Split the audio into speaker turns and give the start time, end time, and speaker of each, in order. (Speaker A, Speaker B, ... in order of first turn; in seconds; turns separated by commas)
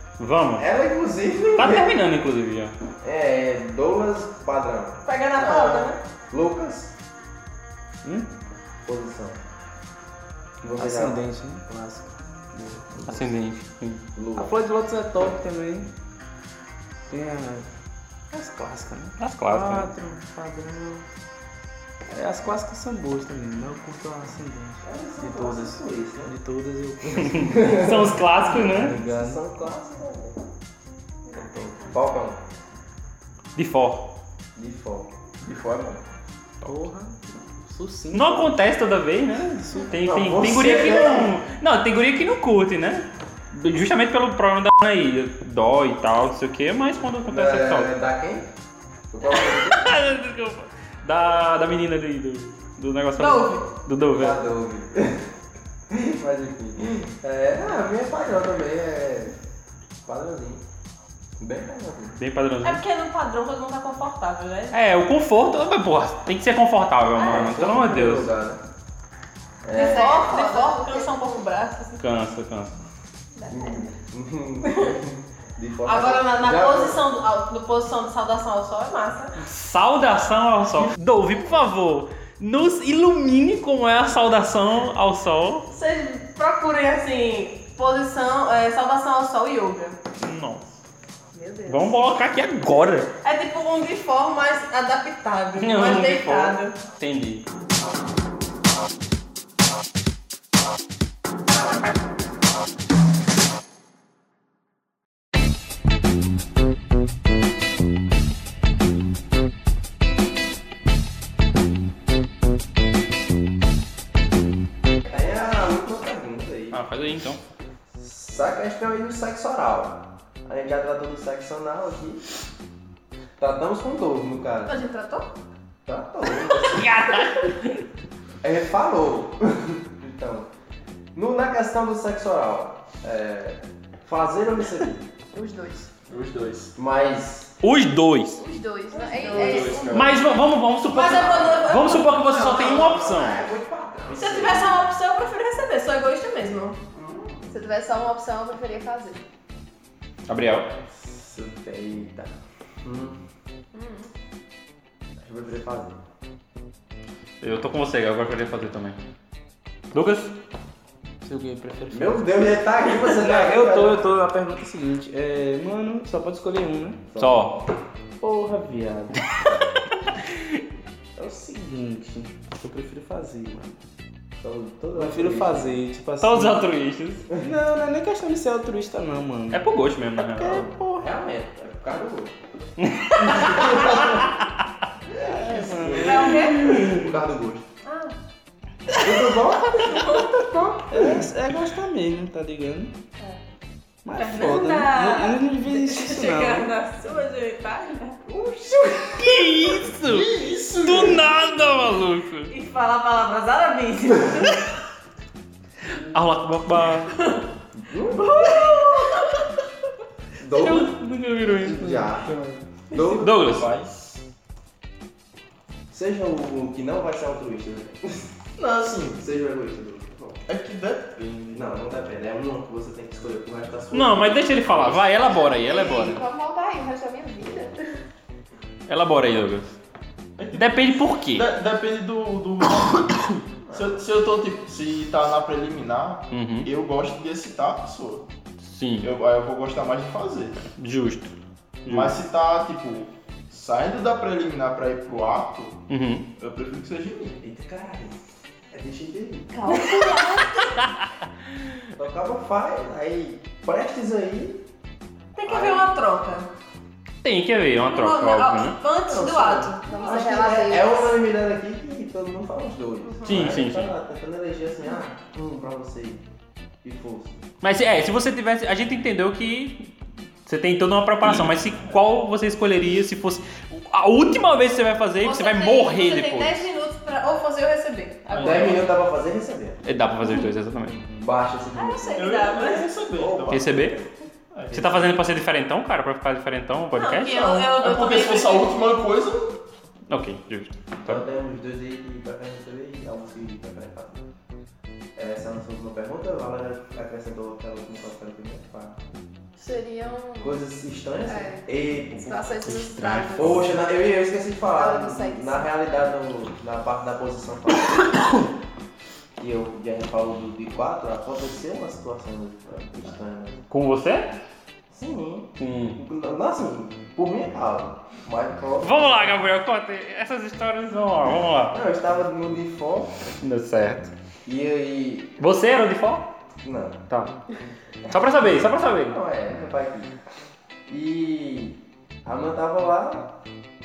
Speaker A: 0.2-0.7, Speaker B: 0.6-2.0, Speaker A: 1.6-2.8, Speaker B: 3.0-5.8, Speaker C: 5.1-6.0, Speaker B: 6.3-6.9, Speaker D: 8.0-8.3, Speaker B: 8.8-9.4, Speaker B: 10.6-11.2, Speaker D: 10.8-13.1, Speaker A: 13.1-14.1, Speaker B: 14.2-14.6, Speaker D: 14.4-15.9, Speaker D: 17.1-17.7, Speaker D: 18.3-21.0, Speaker A: 19.2-19.9, Speaker D: 22.1-27.9, Speaker B: 24.8-26.3, Speaker A: 27.2-29.0, Speaker B: 27.5-28.1, Speaker D: 28.5-29.4, Speaker B: 28.9-30.4, Speaker E: 31.3-32.0, Speaker B: 31.4-32.4, Speaker A: 33.5-34.1, Speaker B: 34.6-35.1, Speaker F: 35.4-36.0, Speaker D: 36.6-38.5, Speaker A: 38.1-47.9, Speaker D: 39.6-39.9, Speaker B: 40.0-41.4, Speaker B: 47.3-48.5, Speaker B: 49.1-49.9, Speaker A: 49.3-54.4, Speaker C: 53.2-53.7, Speaker B: 54.1-55.2, Speaker B: 55.9-59.4, Speaker B: 60.0-60.6, Speaker B: 61.4-62.2, Speaker A: 62.2-62.8, Speaker C: 62.6-64.8, Speaker A: 64.7-68.3, Speaker C: 67.2-67.5, Speaker B: 67.2-68.6, Speaker B: 69.6-70.3, Speaker C: 69.7-72.0, Speaker E: 69.8-71.4, Speaker A: 72.0-72.8, Speaker E: 73.3-74.0, Speaker B: 73.5-77.0, Speaker C: 75.8-79.4, Speaker A: 79.4-85.7, Speaker C: 85.7-90.0, Speaker A: 90.2-90.8, Speaker C: 91.3-92.0, Speaker A: 91.7-93.1, Speaker C: 93.2-96.8, Speaker A: 95.6-97.5, Speaker B: 115.1-116.8, Speaker A: 116.7-117.4, Speaker B: 117.9-122.2, Speaker B: 123.4-124.8, Speaker C: 124.7-125.3, Speaker B: 125.9-126.9, Speaker A: 126.7-127.8, Speaker B: 128.4-130.5, Speaker B: 131.2-135.1, Speaker E: 135.3-135.9, Speaker F: 136.1-136.7, Speaker B: 136.8-137.5, Speaker A: 137.6-138.4, Speaker E: 138.3-140.2, Speaker C: 138.9-139.9, Speaker B: 139.2-139.8, Speaker A: 139.3-143.5, Speaker F: 139.3-140.2, Speaker C: 140.9-142.6, Speaker B: 141.6-144.8, Speaker C: 144.1-146.8, Speaker B: 146.9-147.4, Speaker E: 147.5-149.2, Speaker A: 150.3-150.7, Speaker B: 150.9-152.3, Speaker B: 152.8-153.2, Speaker E: 153.7-154.1, Speaker B: 155.2-156.0, Speaker A: 157.4-159.0, Speaker A: 159.9-160.4, Speaker D: 161.2-167.0, Speaker B: 161.9-164.1, Speaker B: 167.1-167.6, Speaker A: 167.2-167.6, Speaker D: 168.2-169.2, Speaker D: 171.2-173.8, Speaker B: 174.4-175.8, Speaker D: 174.9-176.7, Speaker A: 176.2-177.3, Speaker D: 177.4-179.6, Speaker A: 179.5-180.7, Speaker D: 180.2-181.1, Speaker B: 180.5-182.3, Speaker A: 182.8-184.3, Speaker B: 183.2-184.3, Speaker D: 185.2-187.1, Speaker F: 185.3-186.5, Speaker C: 186.1-186.8, Speaker B: 186.7-187.7, Speaker C: 187.8-188.1, Speaker B: 188.9-191.2, Speaker C: 189.7-190.4, Speaker D: 190.9-192.9, Speaker D: 194.1-196.7, Speaker C: 194.1-198.2, Speaker B: 198.3-199.3, Speaker A: 199.2-202.5, Speaker F: 200.0-201.4, Speaker C: 202.5-204.7, Speaker A: 206.1-207.2, Speaker C: 207.1-207.4, Speaker B: 207.8-208.5, Speaker C: 208.1-209.5, Speaker B: 210.4-210.9, Speaker A: 210.5-212.1, Speaker B: 211.5-212.3, Speaker F: 212.9-214.2, Speaker B: 212.9-213.4, Speaker A: 213.1-213.7, Speaker B: 215.9-218.2, Speaker F: 218.6-219.2, Speaker B: 219.2-220.4, Speaker F: 220.5-221.7, Speaker B: 221.5-225.2, Speaker A: 223.9-226.2, Speaker E: 225.5-227.8, Speaker A: 228.9-229.8, Speaker F: 230.4-230.8, Speaker A: 230.5-231.5, Speaker F: 231.3-238.3, Speaker B: 233.7-234.0, Speaker A: 236.3-236.7, Speaker A: 238.6-239.1, Speaker F: 239.0-240.6, Speaker A: 240.8-241.3, Speaker A: 241.8-242.2, Speaker F: 241.9-245.8, Speaker A: 245.9-246.3, Speaker F: 246.4-247.4, Speaker B: 247.4-248.2, Speaker B: 248.7-250.2, Speaker C: 249.5-250.8, Speaker B: 252.0-254.6, Speaker C: 255.4-256.5, Speaker B: 255.4-255.9, Speaker A: 257.2-258.8, Speaker C: 257.8-260.4, Speaker B: 259.1-266.2, Speaker E: 259.9-261.1, Speaker A: 263.3-263.9, Speaker B: 266.8-267.4, Speaker A: 267.6-269.9, Speaker A: 270.5-276.7, Speaker C: 275.2-278.8, Speaker F: 278.3-278.9, Speaker B: 278.4-279.8, Speaker A: 279.8-281.0, Speaker B: 281.1-282.3, Speaker C: 281.7-282.9, Speaker F: 282.1-283.8, Speaker B: 283.2-284.0, Speaker A: 283.5-284.0, Speaker F: 284.5-284.9, Speaker B: 284.7-285.1, Speaker A: 284.7-287.6, Speaker C: 286.9-288.8, Speaker F: 287.3-289.6, Speaker A: 290.1-291.2, Speaker B: 291.0-294.2, Speaker B: 295.2-299.0, Speaker E: 299.6-300.6, Speaker B: 300.4-302.5, Speaker E: 301.3-303.8, Speaker A: 302.9-303.3, Speaker B: 303.4-308.2, Speaker E: 304.7-305.7, Speaker B: 309.4-313.6, Speaker A: 313.7-314.3, Speaker B: 314.9-319.4, Speaker A: 315.6-316.0, Speaker A: 318.8-321.8, Speaker B: 321.7-323.1, Speaker A: 323.4-324.1, Speaker B: 324.4-325.4, Speaker A: 325.4-326.3, Speaker B: 326.6-327.0, Speaker A: 327.1-327.4, Speaker A: 328.1-329.2, Speaker B: 329.1-330.1, Speaker B: 330.9-333.3